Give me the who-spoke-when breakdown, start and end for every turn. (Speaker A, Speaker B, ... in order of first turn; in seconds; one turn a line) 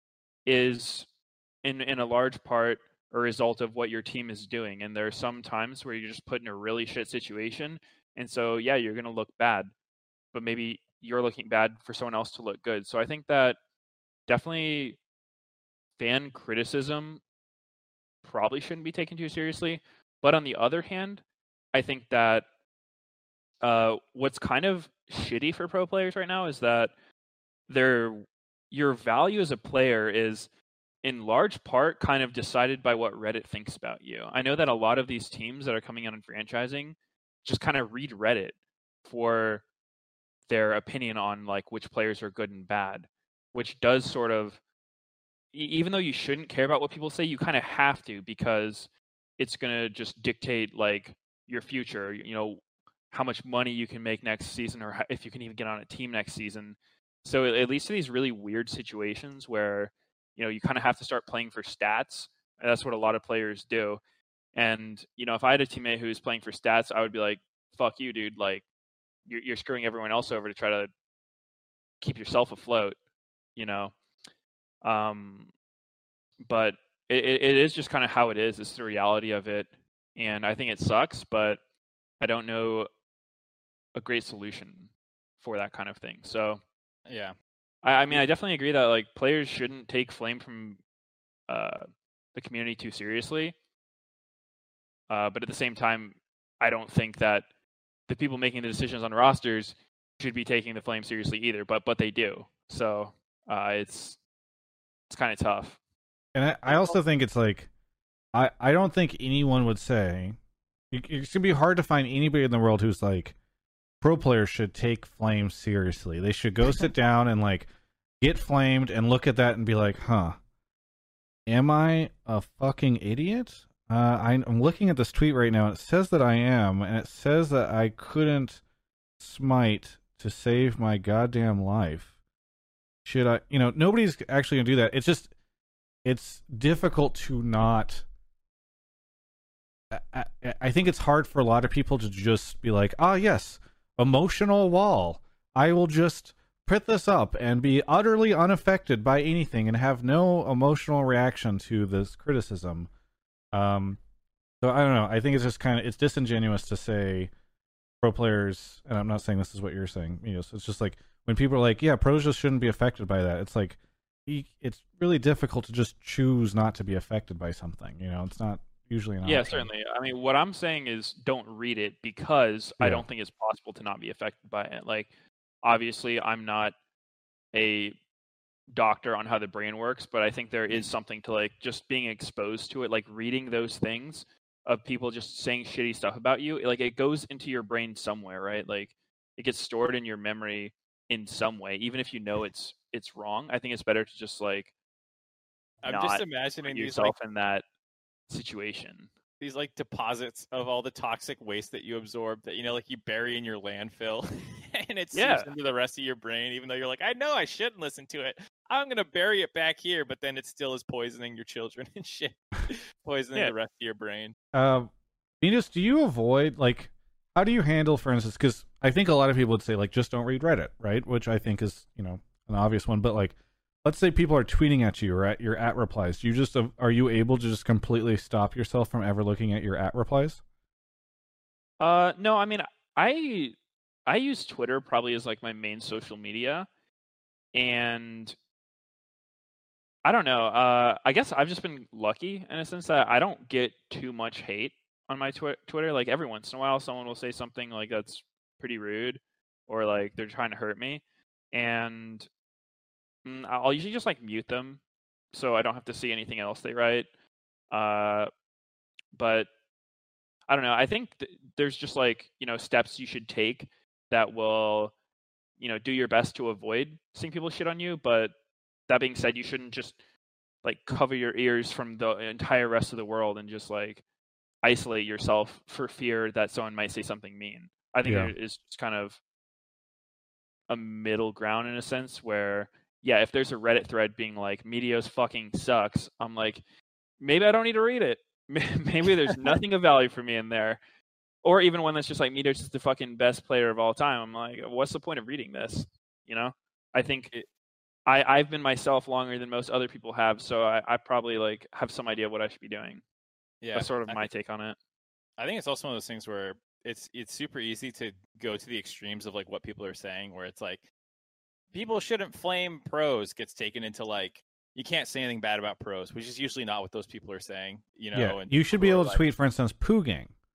Speaker A: 0.5-1.1
Speaker A: 1.6-9.7
Speaker A: 10.3-13.6
Speaker A: 14.3-15.0
Speaker A: 16.0-17.2
Speaker A: 18.2-21.2
Speaker A: 21.7-22.4
Speaker A: 23.6-26.9
Speaker A: 27.7-30.5
Speaker A: 31.0-39.6
Speaker A: 40.5-44.6
Speaker A: 45.5-64.0
Speaker A: 64.5-68.6
Speaker A: 69.3-70.9
Speaker A: 72.0-73.0
Speaker A: 73.5-73.9
Speaker A: 74.8-75.5
Speaker A: 76.4-81.6
Speaker A: 82.2-82.9
Speaker A: 83.9-86.6
Speaker B: 87.1-87.3
Speaker A: 87.8-90.8
Speaker A: 91.5-93.5
Speaker A: 95.1-97.4
Speaker A: 98.1-104.2
Speaker A: 105.1-105.8
Speaker C: 106.3-107.7
Speaker A: 106.7-107.0
Speaker C: 108.3-110.4
Speaker C: 110.9-113.3
Speaker C: 114.0-117.7
Speaker C: 118.2-120.4
Speaker C: 121.5-128.6
Speaker C: 129.2-132.1
Speaker C: 133.0-135.3
Speaker C: 136.0-138.0
Speaker C: 139.9-152.9
Speaker C: 153.5-154.0
Speaker C: 154.6-157.3
Speaker C: 158.0-169.7
Speaker A: 169.2-175.1
Speaker C: 172.8-173.0
Speaker A: 175.6-176.7
Speaker A: 177.5-177.9
Speaker A: 178.7-194.7
Speaker B: 195.8-197.1
Speaker A: 195.8-197.6
Speaker A: 198.3-199.1
Speaker B: 199.4-214.3
Speaker A: 205.1-205.5
Speaker C: 214.5-214.9
Speaker C: 215.4-230.4
Speaker A: 231.8-233.5
Speaker A: 234.1-236.7
Speaker A: 237.5-238.3
Speaker A: 240.0-252.3
Speaker A: 253.2-254.8
Speaker A: 255.3-257.1
Speaker A: 257.7-258.3
Speaker A: 259.1-259.5
Speaker A: 260.5-264.9
Speaker A: 265.6-268.3
Speaker A: 268.9-270.0
Speaker A: 270.6-274.0
Speaker A: 274.6-279.2
Speaker C: 278.0-278.3
Speaker A: 280.7-286.6
Speaker A: 287.2-290.8
Speaker A: 291.4-297.3
Speaker A: 298.1-303.0
Speaker B: 303.6-304.3
Speaker A: 303.7-304.8
Speaker B: 305.4-310.8
Speaker B: 311.7-319.2
Speaker C: 318.1-320.3